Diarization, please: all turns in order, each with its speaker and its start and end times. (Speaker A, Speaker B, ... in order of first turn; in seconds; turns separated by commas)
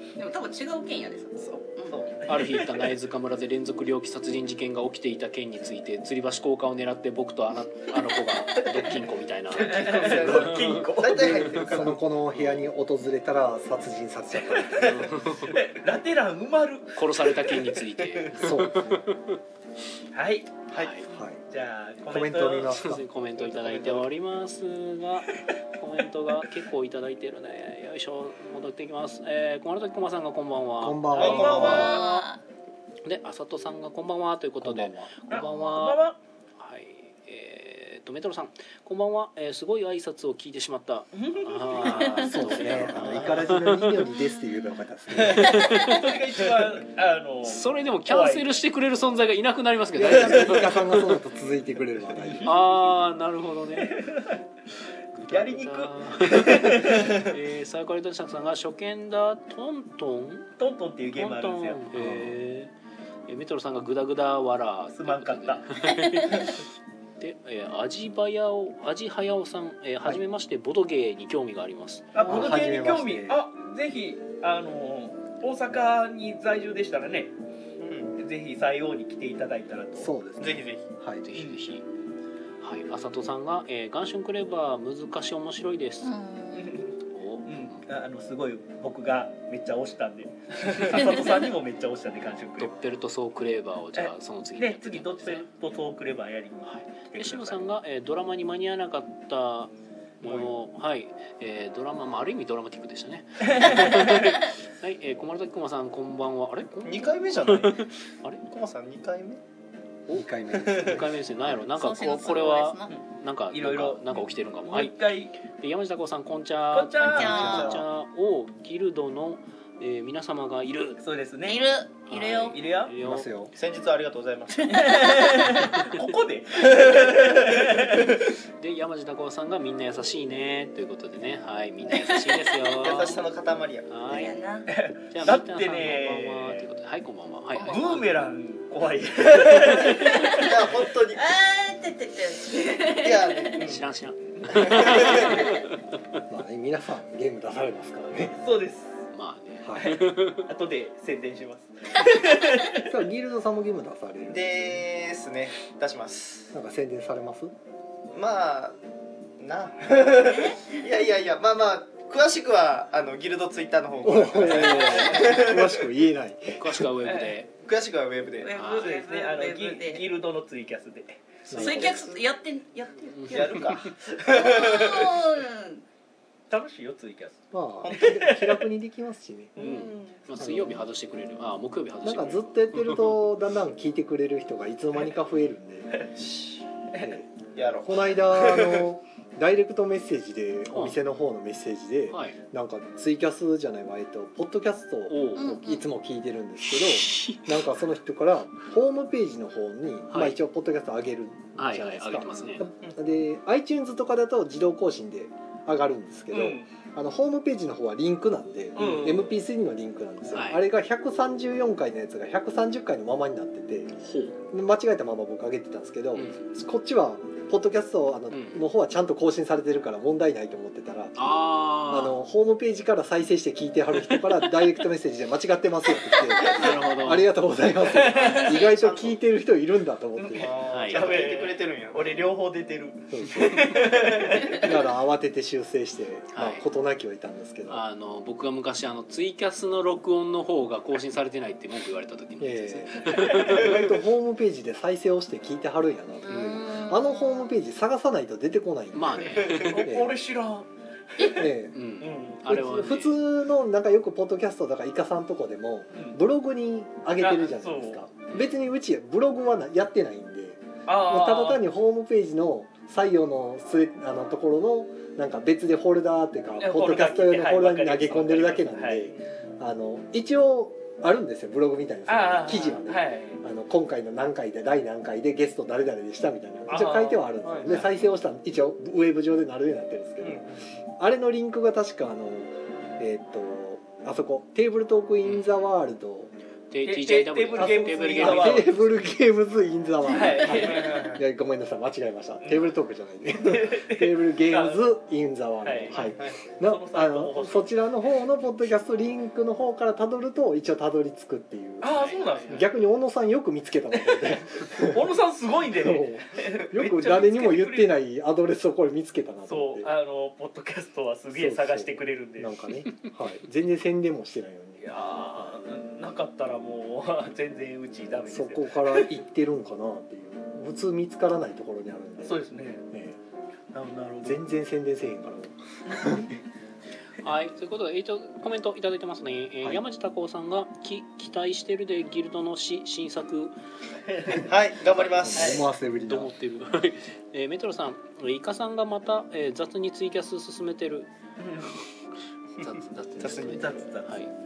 Speaker A: 0.2-2.1, Speaker B: 1.9-2.2, Speaker C: 2.2-10.8, Speaker D: 2.3-2.6, Speaker B: 9.5-12.0, Speaker D: 9.5-11.4, Speaker E: 11.2-15.2, Speaker C: 11.4-12.6, Speaker C: 14.8-15.6, Speaker D: 15.4-17.4, Speaker C: 16.9-19.4, Speaker B: 18.0-18.3, Speaker E: 18.3-19.1, Speaker D: 20.1-20.6, Speaker C: 20.7-21.1, Speaker E: 21.1-21.4, Speaker D: 21.5-22.8, Speaker E: 22.1-23.0, Speaker C: 22.7-32.2, Speaker B: 23.4-24.1, Speaker E: 30.8-31.9, Speaker D: 31.1-32.0, Speaker B: 31.1-32.0, Speaker A: 31.4-32.4, Speaker C: 33.0-36.0, Speaker E: 34.6-35.1, Speaker D: 35.3-36.2, Speaker C: 36.6-44.1, Speaker D: 41.1-42.2, Speaker A: 42.0-42.3, Speaker E: 42.1-45.7, Speaker C: 45.2-46.1, Speaker D: 45.6-48.5, Speaker C: 47.5-51.1, Speaker E: 49.9-52.5, Speaker D: 52.2-52.5, Speaker C: 52.4-54.0, Speaker D: 53.8-54.4, Speaker C: 55.1-60.5, Speaker D: 55.3-57.1, Speaker B: 57.0-57.2, Speaker D: 60.6-61.8, Speaker C: 61.1-62.7, Speaker E: 61.9-62.3, Speaker C: 63.3-66.6, Speaker D: 64.9-65.7, Speaker C: 67.2-72.7, Speaker D: 72.1-77.3, Speaker E: 72.3-73.4, Speaker B: 77.8-78.2, Speaker D: 78.2-80.1, Speaker E: 80.0-81.2, Speaker B: 80.4-80.9, Speaker C: 81.2-81.8, Speaker C: 82.6-86.1, Speaker A: 86.0-86.8, Speaker D: 86.5-86.9, Speaker C: 87.0-87.8, Speaker D: 87.5-92.8, Speaker C: 92.6-95.5, Speaker D: 94.0-97.6, Speaker C: 96.7-99.7, Speaker C: 100.2-108.4, Speaker D: 103.5-104.3, Speaker B: 106.8-107.9, Speaker B: 108.5-109.4, Speaker C: 110.1-121.0, Speaker E: 110.1-111.1, Speaker B: 110.6-111.0, Speaker A: 111.6-112.9, Speaker D: 112.9-115.3, Speaker D: 116.7-117.6, Speaker A: 117.0-117.8, Speaker E: 117.2-117.8, Speaker B: 117.4-117.7, Speaker D: 121.0-121.6, Speaker A: 121.5-122.6, Speaker C: 122.1-123.3, Speaker D: 122.5-122.9, Speaker E: 123.0-123.5, Speaker B: 123.5-124.8, Speaker A: 124.6-125.7, Speaker D: 124.7-128.1, Speaker C: 125.6-126.0, Speaker B: 126.7-127.8, Speaker C: 128.6-133.2, Speaker A: 131.9-132.7, Speaker B: 132.8-134.0, Speaker C: 133.9-134.3, Speaker A: 134.1-134.7, Speaker D: 134.7-136.7, Speaker C: 135.1-138.1, Speaker A: 137.5-138.0, Speaker D: 137.7-140.5, Speaker A: 139.8-140.4, Speaker B: 140.3-141.2, Speaker A: 141.1-143.7, Speaker B: 142.9-143.8, Speaker C: 143.6-145.8, Speaker B: 144.5-145.5, Speaker E: 146.3-148.4, Speaker D: 148.4-149.1, Speaker C: 149.1-150.5, Speaker E: 149.6-149.9, Speaker D: 149.8-152.9, Speaker E: 152.7-154.8, Speaker B: 154.3-156.5, Speaker E: 156.5-157.5, Speaker B: 158.1-158.8, Speaker B: 159.4-165.8, Speaker E: 164.0-166.9, Speaker A: 164.9-165.2, Speaker C: 166.6-167.5, Speaker D: 167.0-167.3, Speaker B: 167.6-168.5, Speaker A: 168.4-170.1, Speaker C: 168.5-168.9, Speaker D: 168.8-171.4, Speaker E: 171.5-172.0, Speaker A: 171.5-173.7, Speaker B: 171.8-172.2, Speaker C: 173.2-173.9, Speaker B: 173.3-175.2, Speaker A: 174.3-175.8, Speaker D: 176.5-177.4, Speaker E: 177.5-179.5, Speaker B: 177.8-178.1, Speaker D: 177.9-178.6, Speaker D: 179.6-180.0, Speaker C: 179.6-183.2, Speaker A: 179.6-180.1, Speaker E: 180.4-180.8, Speaker E: 182.0-186.0, Speaker B: 186.1-186.6, Speaker E: 187.0-187.3, Speaker B: 187.5-188.8, Speaker E: 187.8-213.9, Speaker C: 190.7-191.0, Speaker C: 192.1-192.4, Speaker C: 195.1-195.6, Speaker A: 195.4-195.8, Speaker C: 196.7-197.6, Speaker C: 200.1-200.4, Speaker C: 201.6-202.7, Speaker A: 202.3-202.6, Speaker D: 206.3-206.7, Speaker D: 208.7-209.3, Speaker C: 208.8-209.1, Speaker C: 210.3-210.6, Speaker C: 214.0-214.3, Speaker E: 214.5-221.3, Speaker C: 216.1-216.5, Speaker C: 218.3-218.6, Speaker C: 221.2-222.2, Speaker E: 221.9-230.6, Speaker C: 226.4-227.3, Speaker D: 227.8-228.5, Speaker A: 228.3-228.7, Speaker B: 228.4-229.2, Speaker D: 230.2-234.7, Speaker B: 230.3-232.2, Speaker C: 230.7-231.2, Speaker E: 233.1-233.9, Speaker E: 234.5-237.8, Speaker C: 236.3-236.7, Speaker C: 237.7-243.8, Speaker E: 242.4-250.1, Speaker A: 246.2-247.5, Speaker C: 248.9-249.8, Speaker B: 249.4-249.8, Speaker D: 249.6-251.5, Speaker E: 251.2-251.8, Speaker C: 251.7-253.2, Speaker D: 252.0-252.7, Speaker E: 252.4-286.3, Speaker D: 255.9-256.2, Speaker D: 257.2-258.0, Speaker D: 260.9-261.6, Speaker D: 266.6-269.1, Speaker D: 272.1-273.4, Speaker D: 276.7-277.9, Speaker B: 280.2-280.6, Speaker C: 285.2-285.5, Speaker C: 286.7-289.0, Speaker D: 286.8-288.7, Speaker E: 287.5-305.1, Speaker D: 290.1-291.1, Speaker B: 290.6-291.2, Speaker D: 292.4-292.7, Speaker D: 293.4-294.8, Speaker D: 295.6-297.8, Speaker B: 296.1-296.4, Speaker D: 301.8-302.7, Speaker C: 301.9-302.6, Speaker D: 304.1-307.9, Speaker E: 305.8-309.9, Speaker D: 309.4-312.6, Speaker E: 311.3-315.6, Speaker D: 314.8-319.1, Speaker E: 318.3-323.2, Speaker D: 322.2-322.8, Speaker D: 323.7-324.4, Speaker E: 324.2-326.4, Speaker C: 327.2-333.5, Speaker D: 334.1-334.4, Speaker B: 334.3-335.6, Speaker C: 334.8-341.1, Speaker E: 335.4-336.3, Speaker D: 341.4-341.7, Speaker C: 342.6-344.3, Speaker B: 343.2-343.7, Speaker D: 343.4-344.2